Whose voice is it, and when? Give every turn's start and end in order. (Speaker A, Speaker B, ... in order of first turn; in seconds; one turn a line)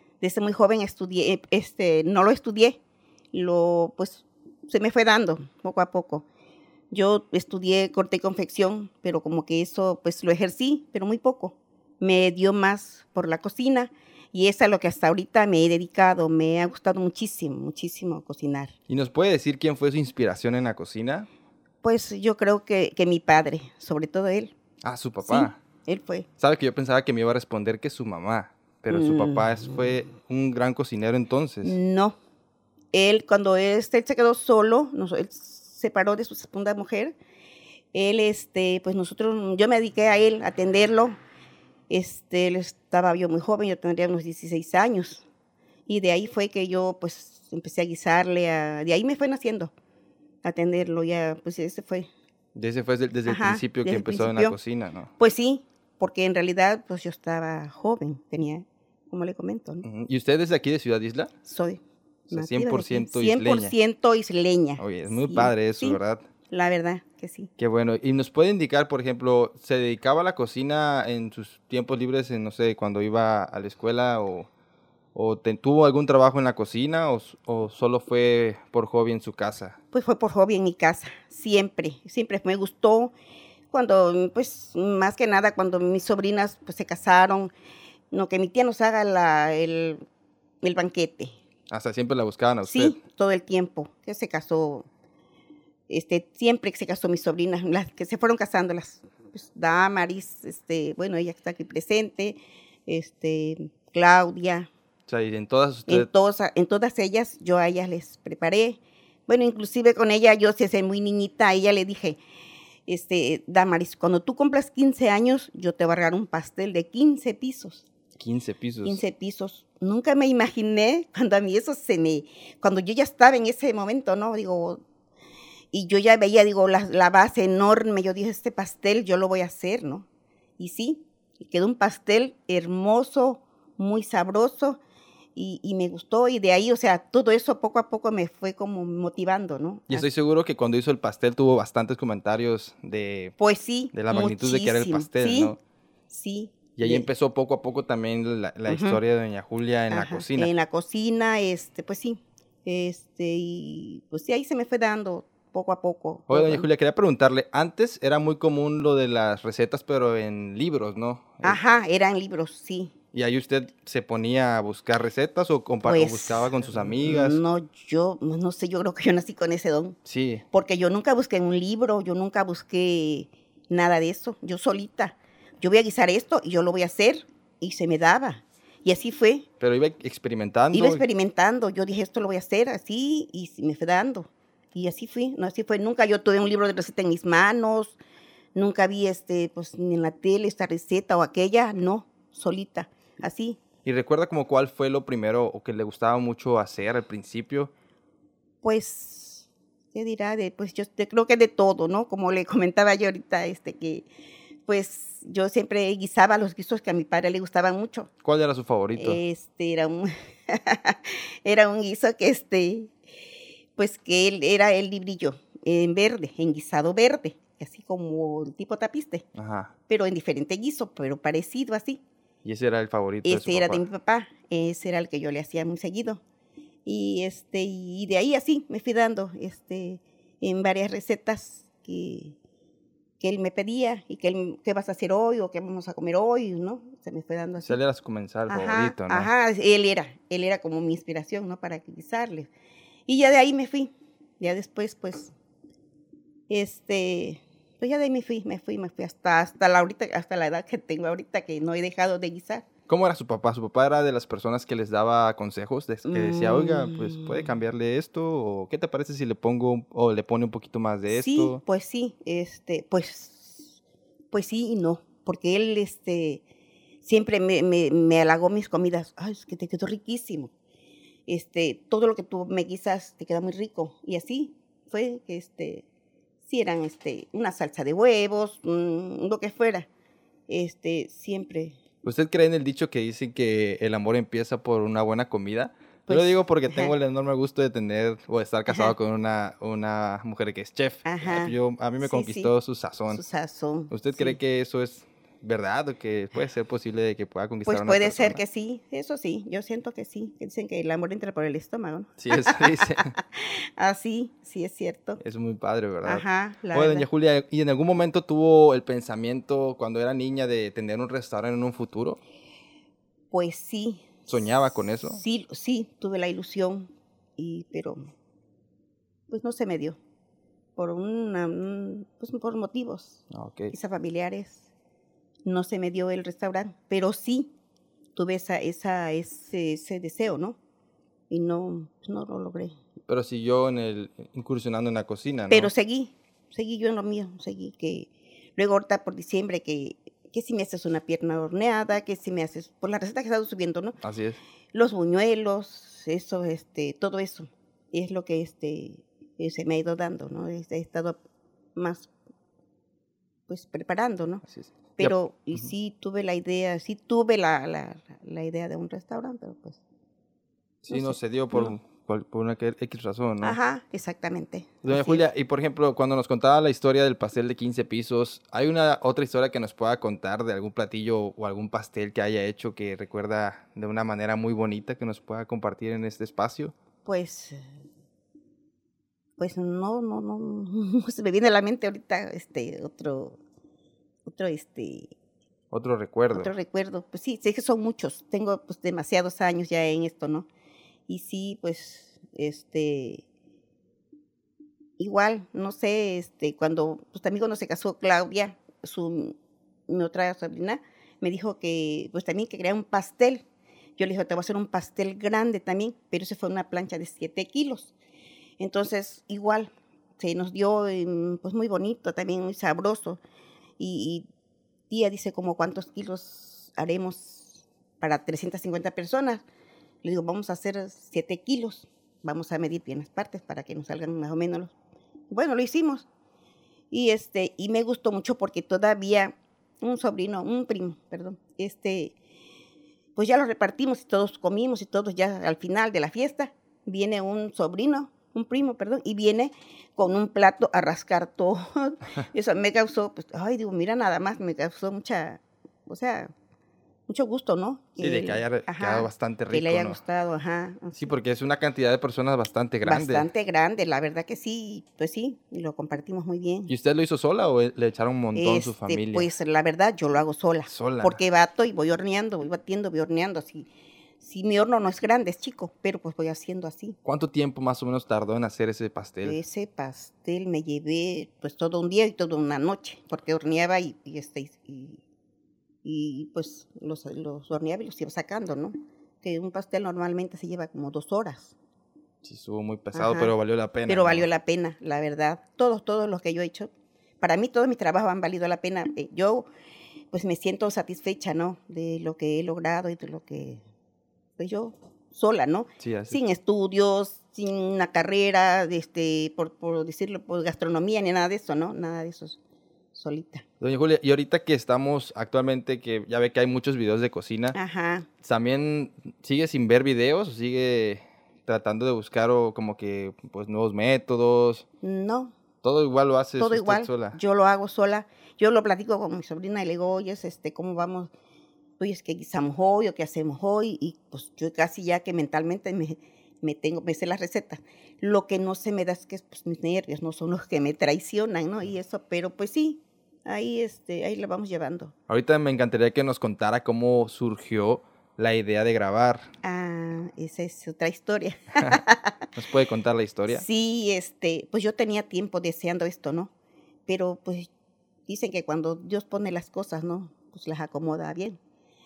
Speaker A: 0.2-2.8
Speaker A: 3.3-6.2
Speaker A: 6.9-18.7
Speaker B: 18.9-21.3
Speaker A: 21.8-24.5
Speaker B: 24.8-25.6
Speaker A: 25.2-26.3
Speaker B: 26.4-31.8
Speaker A: 28.9-29.5
Speaker A: 31.6-32.2
Speaker A: 32.9-37.1
Speaker A: 37.9-41.2
Speaker A: 41.9-45.2
Speaker A: 45.9-49.7
Speaker A: 50.4-52.1
Speaker B: 52.5-55.1
Speaker A: 53.3-54.5
Speaker A: 55.2-59.8
Speaker B: 59.8-61.3
Speaker A: 61.5-67.5
Speaker B: 62.3-63.7
Speaker B: 64.8-66.2
Speaker B: 67.6-74.5
Speaker B: 75.2-79.8
Speaker A: 79.9-83.1
Speaker A: 83.7-87.5
Speaker A: 88.1-90.0
Speaker A: 90.6-91.3
Speaker B: 91.7-93.0
Speaker A: 92.6-94.9
Speaker A: 95.9-104.7
Speaker B: 105.1-106.1
Speaker A: 105.9-112.2
Speaker A: 112.9-117.9
Speaker B: 118.2-119.0
Speaker A: 118.8-124.8
Speaker A: 125.7-130.1
Speaker A: 130.6-134.8
Speaker A: 135.3-140.1
Speaker B: 139.9-143.3
Speaker A: 143.4-145.6
Speaker B: 143.9-145.6
Speaker A: 146.1-147.1
Speaker B: 146.8-150.5
Speaker A: 148.7-149.0
Speaker A: 149.9-156.7
Speaker B: 156.3-161.6
Speaker A: 161.4-162.9
Speaker B: 163.1-167.4
Speaker A: 165.8-170.0
Speaker B: 170.1-170.4
Speaker A: 170.5-179.5
Speaker B: 179.6-181.0
Speaker A: 180.7-188.0
Speaker A: 188.5-193.6
Speaker B: 193.8-197.7
Speaker A: 198.6-204.1
Speaker A: 204.7-208.1
Speaker B: 208.2-209.2
Speaker A: 209.0-212.9
Speaker A: 213.8-219.2
Speaker B: 219.3-219.7
Speaker A: 219.9-222.0
Speaker B: 222.4-223.8
Speaker A: 223.2-226.2
Speaker A: 226.8-232.3
Speaker A: 233.2-237.8
Speaker B: 237.6-239.3
Speaker A: 238.5-242.5
Speaker A: 243.1-245.3
Speaker A: 246.5-252.7
Speaker B: 252.9-261.6
Speaker A: 256.1-257.5
Speaker A: 261.1-263.8
Speaker A: 264.3-266.4
Speaker A: 267.0-270.5
Speaker A: 271.3-275.8
Speaker A: 276.4-279.9
Speaker A: 280.5-281.8
Speaker B: 282.0-293.2
Speaker A: 286.1-286.9
Speaker A: 288.7-288.9
Speaker A: 291.0-292.5
Speaker A: 293.1-294.4
Speaker B: 293.9-298.4
Speaker A: 297.6-305.2
Speaker B: 302.2-303.1
Speaker B: 305.2-312.2
Speaker A: 306.0-307.1
Speaker A: 313.3-314.3
Speaker B: 314.3-315.2
Speaker A: 315.0-318.0
Speaker A: 319.3-320.0
Speaker A: 320.8-324.7
Speaker B: 323.3-323.7
Speaker A: 325.4-327.5
Speaker A: 328.1-330.6
Speaker A: 331.3-332.7
Speaker B: 333.1-335.7
Speaker A: 335.5-343.9
Speaker B: 344.0-344.4
Speaker A: 344.7-351.2
Speaker A: 351.8-352.1
Speaker A: 353.5-354.4
Speaker B: 354.5-355.6
Speaker A: 355.0-359.8
Speaker B: 360.8-363.6
Speaker A: 360.9-361.7
Speaker A: 363.4-365.2
Speaker B: 364.8-376.8
Speaker A: 377.0-377.6
Speaker A: 379.4-383.4
Speaker A: 384.2-385.1
Speaker B: 385.7-386.5
Speaker A: 386.3-390.5
Speaker A: 391.1-393.2
Speaker A: 395.0-399.4
Speaker A: 399.9-403.4
Speaker A: 404.0-407.9
Speaker A: 408.6-413.2
Speaker A: 413.8-414.2
Speaker A: 414.9-419.4
Speaker A: 420.0-424.7
Speaker A: 425.3-426.1
Speaker A: 426.9-432.1
Speaker A: 433.1-446.3
Speaker A: 447.1-451.1
Speaker B: 448.0-450.0
Speaker B: 450.9-453.3
Speaker A: 452.8-456.7
Speaker B: 456.7-459.3
Speaker A: 458.3-463.7
Speaker B: 460.7-461.2
Speaker A: 464.2-467.0
Speaker B: 467.0-469.4
Speaker A: 469.2-475.0
Speaker A: 475.8-481.5
Speaker B: 482.2-484.3
Speaker A: 482.9-483.3
Speaker A: 483.9-489.5
Speaker A: 490.1-493.6
Speaker A: 494.4-502.4
Speaker B: 495.8-496.2
Speaker A: 502.9-503.4
Speaker B: 503.6-507.6
Speaker A: 507.5-508.1
Speaker B: 508.2-514.7
Speaker A: 514.8-515.4
Speaker B: 515.6-517.2
Speaker A: 516.4-521.1
Speaker A: 521.8-534.9
Speaker B: 535.1-539.3
Speaker A: 539.4-542.2
Speaker B: 542.4-543.4
Speaker A: 543.3-546.3
Speaker A: 546.9-547.5
Speaker A: 548.1-551.4